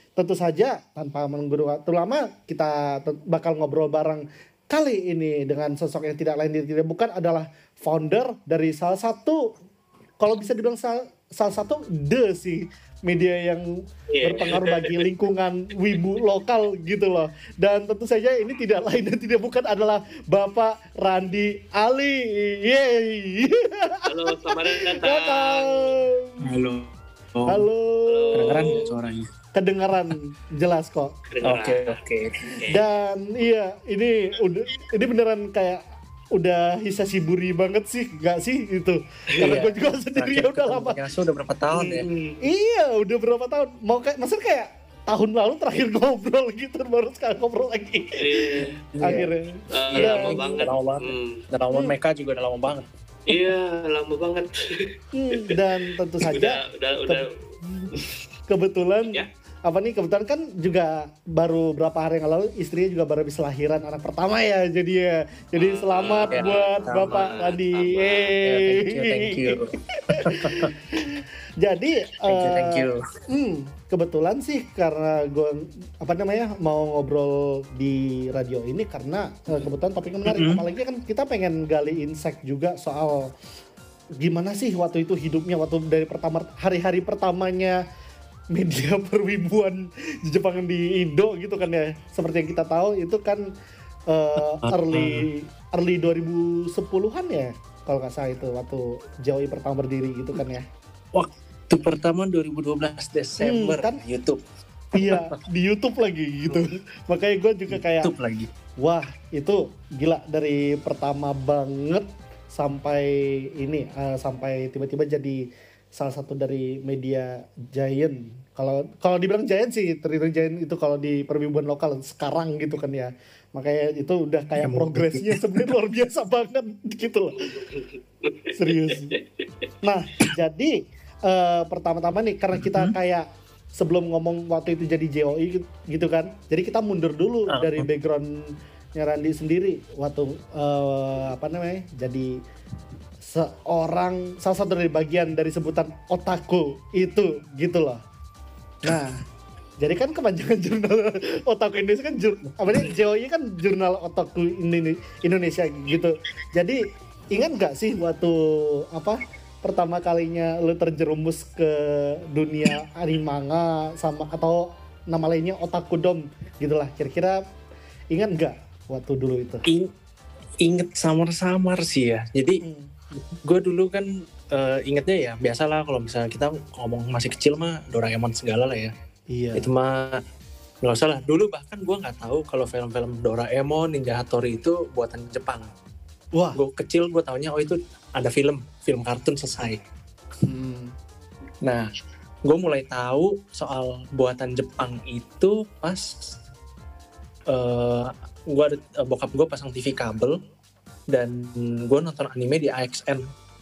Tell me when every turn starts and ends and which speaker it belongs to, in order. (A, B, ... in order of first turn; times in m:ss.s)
0:00.2-0:09.4 A
0:10.2-0:13.6 A
0:14.1-0:15.0 B
0:14.2-0:26.4 A
0:24.1-0:26.0 B
0:26.4-0:27.7 C
0:27.5-0:28.8 A
0:28.1-0:28.9 B
0:28.4-0:29.3 C
0:29.6-0:31.2 A
0:31.3-0:32.8 B
0:31.4-0:32.5 C
0:32.7-0:35.8 A
0:36.4-0:41.0 A
0:39.4-0:42.1 C
0:41.7-0:42.4 B
0:42.4-0:50.7 A
0:48.2-0:48.8 B
0:48.8-0:49.3 C
0:49.7-0:51.4 B
0:49.9-0:52.8 C
0:53.3-0:54.8 B
0:55.1-1:23.2 A
0:56.3-0:57.3 B
1:05.6-1:08.4 B
1:06.3-1:07.3 C
1:08.4-1:10.8 C
1:12.2-1:13.0 C
1:20.3-1:20.6 C
1:24.2-1:27.8 A
1:28.6-1:33.4 A
1:34.1-1:40.6 A
1:34.4-1:35.3 C
1:41.1-1:44.4 C
1:43.4-1:44.0 A
1:45.0-1:48.1 A
1:45.0-1:45.4 C
1:47.7-1:48.5 C
1:48.8-1:55.4 A
1:56.0-2:07.5 A
2:04.6-2:05.7 C
2:07.4-2:09.7 B
2:08.6-2:09.2 A
2:09.8-2:18.3 A
2:12.6-2:12.9 C
2:17.5-2:17.9 C
2:19.0-2:22.3 A
2:23.2-2:28.0 A
2:28.8-2:29.2 A
2:29.8-2:36.8 A
2:37.3-2:47.4 A
2:48.1-2:49.6 A
2:50.6-2:52.6 C
2:52.6-2:52.9 A
2:53.3-2:58.9 C
2:59.3-2:59.7 A
2:59.6-3:00.2 C
3:00.8-3:05.7 C
3:06.6-3:09.8 C
3:10.4-3:10.9 A
3:12.5-3:16.3 C
3:17.5-3:20.4 C
3:21.1-3:23.3 C